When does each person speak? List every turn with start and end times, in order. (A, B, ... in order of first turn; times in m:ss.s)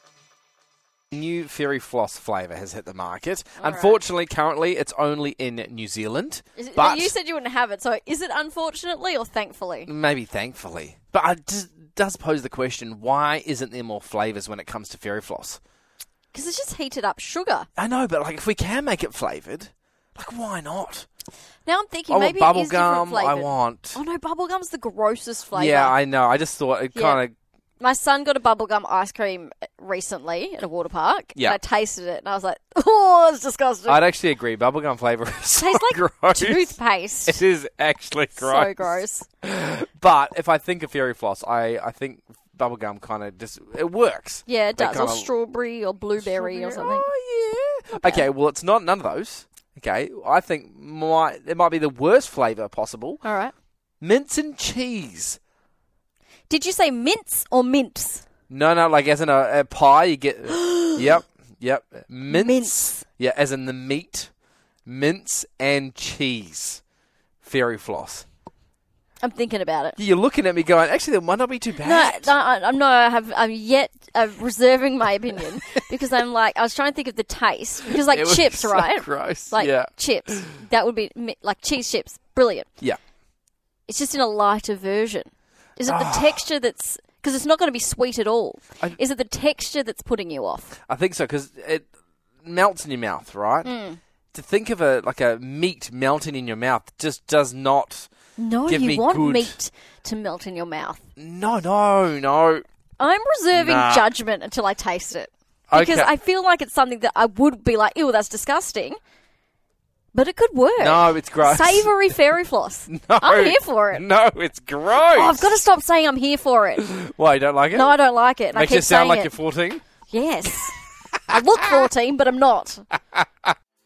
0:01.1-0:07.1 A
0:03.6-0:04.0 B
0:06.6-0:09.9 B
0:09.9-0:15.6 A
0:16.3-0:17.7 B
0:17.8-0:21.1 A
0:21.6-0:26.0 B
0:22.1-0:24.0 A
0:25.5-0:27.3 A
0:26.9-0:27.2 B
0:27.8-0:34.0 B
0:33.9-0:45.3 A
0:35.6-0:37.4 B
0:38.4-0:39.3 B
0:44.4-0:47.1 B
0:46.2-0:53.2 A
0:47.9-0:48.3 B
0:53.2-0:53.5 B
0:54.0-0:55.4 A
0:56.5-0:58.2 B
0:58.5-1:04.3 A
1:00.6-1:01.0 B
1:02.3-1:03.0 B
1:04.8-1:06.8 A
1:07.4-1:08.2 A
1:09.2-1:10.0 B
1:10.0-1:12.3 A
1:11.8-1:22.7 B
1:17.9-1:20.6 A
1:23.9-1:30.7 B
1:25.8-1:26.4 A
1:30.9-1:31.9 A
1:32.4-1:33.7 A
1:33.6-1:34.0 B
1:34.3-1:38.1 A
1:38.4-1:41.0 B
1:38.7-1:39.5 A
1:41.2-1:42.6 A
1:43.0-1:49.0 B
1:43.5-1:44.1 A
1:45.7-1:46.1 A
1:50.1-1:54.0 B
1:50.8-1:51.9 A
1:52.9-1:55.5 A
1:54.9-1:56.9 B
1:56.8-1:58.0 A
1:57.7-1:59.3 B
1:58.5-1:59.8 A
2:00.1-2:02.9 B
2:01.3-2:01.8 A